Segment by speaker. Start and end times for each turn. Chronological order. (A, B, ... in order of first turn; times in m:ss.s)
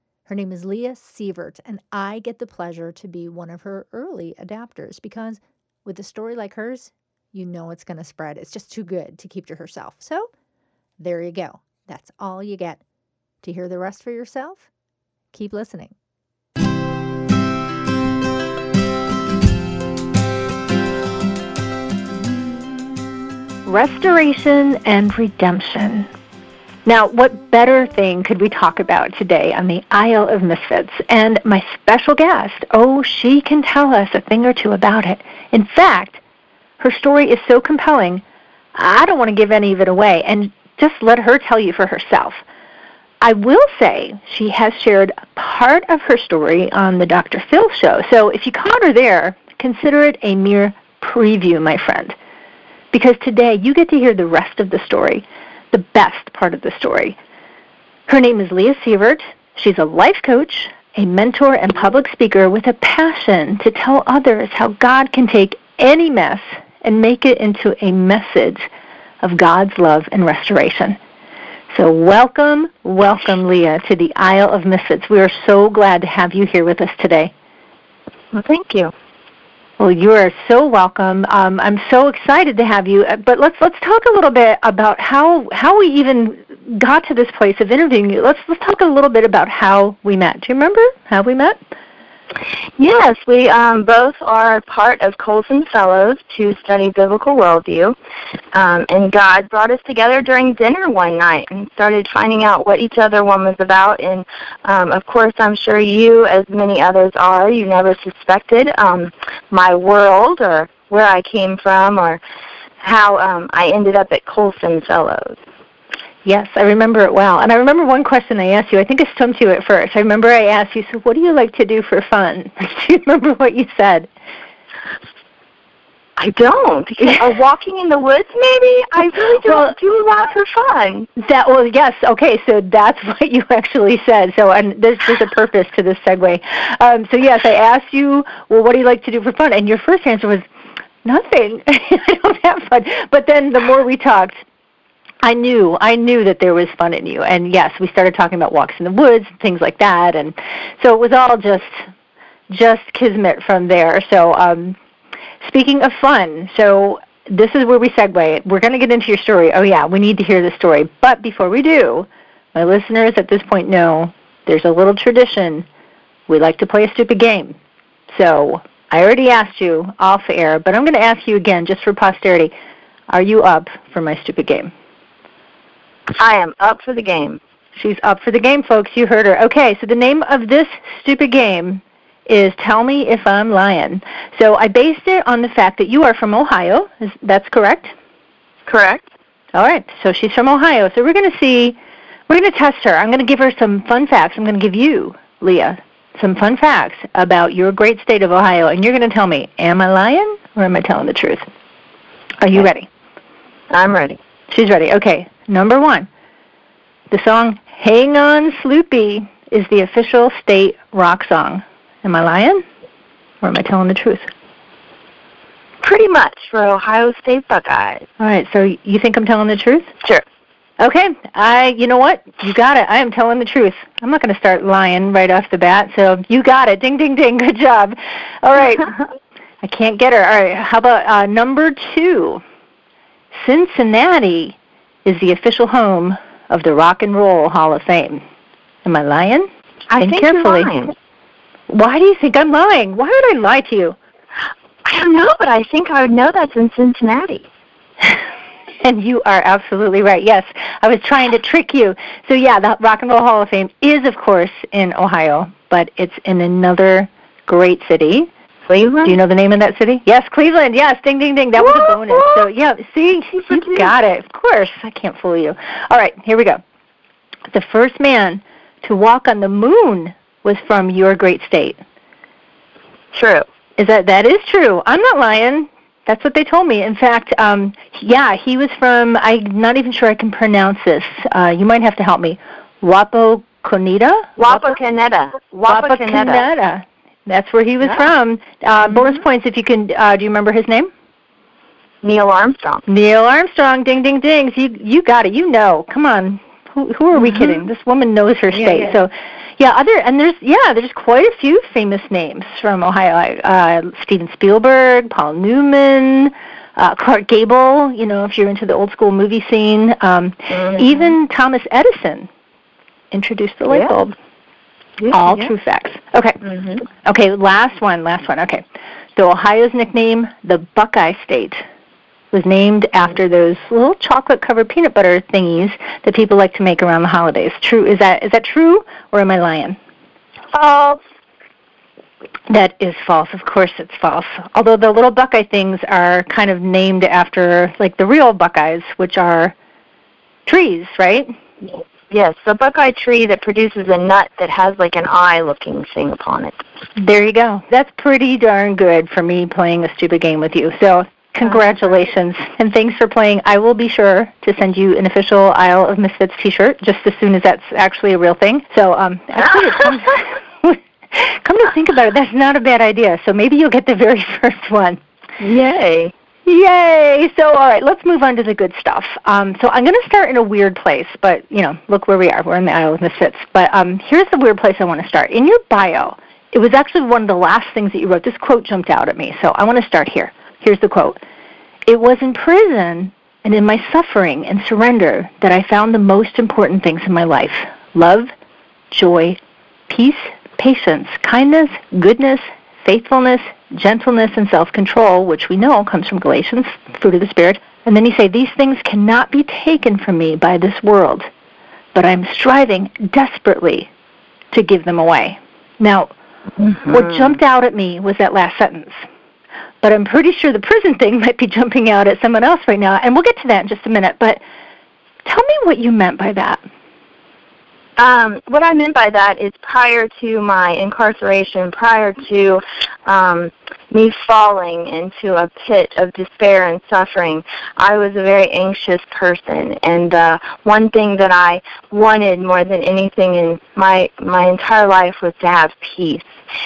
0:00.3-0:10.3 A
0:11.0-0:12.8 A
0:13.4-0:14.7 A
0:15.3-0:16.0 A
0:23.7-0:26.1 B
0:26.9-0:36.2 B
0:36.8-0:38.2 B
0:38.8-0:42.4 B
0:43.2-0:52.2 B
0:52.9-0:57.2 B
0:58.1-1:08.7 B
1:09.2-1:11.0 B
1:11.7-1:17.3 B
1:18.3-1:18.9 C
1:19.8-1:31.6 B
1:32.8-1:38.0 C
1:38.5-1:52.2 C
1:52.8-1:55.4 C
1:56.2-2:04.1 B
2:06.2-2:11.1 C
2:09.4-2:09.7 B
2:11.2-2:20.5 B
2:21.0-2:24.4 B
2:25.2-2:31.9 B
2:32.5-2:34.8 B
2:35.4-2:45.7 B
2:46.3-2:47.6 B
2:48.1-2:52.5 B
2:53.1-2:54.7 B
2:56.2-2:57.4 C
2:57.8-3:07.9 B
3:08.7-3:09.1 C
3:09.5-3:11.8 B
3:12.3-3:21.4 B
3:22.4-3:22.9 B
3:23.7-3:24.2 C
3:24.5-3:26.1 B
3:27.1-3:32.6 B
3:33.4-3:34.3 B
3:35.8-3:38.1 C
3:38.2-3:39.9 B
3:40.8-3:49.0 B
3:49.6-3:52.4 B
3:53.3-3:58.2 B
3:58.8-3:59.5 B
3:59.9-4:00.9 C
4:00.0-4:00.7 B
4:01.7-4:04.0 B
4:04.8-4:07.5 C
4:08.8-4:18.3 B
4:18.7-4:19.2 C
4:19.0-4:26.6 B
4:21.6-4:22.5 C
4:23.4-4:23.9 C
4:27.5-4:31.8 B
4:33.1-4:33.4 C
4:33.8-4:44.6 B
4:44.4-4:46.4 C
4:45.7-4:50.9 B
4:52.0-4:52.8 C
4:52.9-5:12.3 B
4:58.6-4:58.9 C
5:13.1-5:14.1 B
5:13.7-5:14.1 C
5:15.0-5:15.5 C
5:15.1-5:18.6 B
5:19.2-5:21.6 B
5:22.3-5:29.8 B
5:30.5-5:31.0 C
5:32.5-5:39.6 B
5:40.5-5:41.3 B
5:41.6-5:46.6 C
5:47.0-6:05.0 B
6:05.4-6:06.1 C
6:06.5-6:21.2 B
6:21.9-6:28.3 B
6:28.9-6:41.3 B
6:41.9-6:43.9 B
6:44.5-6:46.1 B
6:46.8-6:49.0 B
6:49.8-6:54.4 B
6:55.2-6:56.6 B
6:58.0-7:16.3 C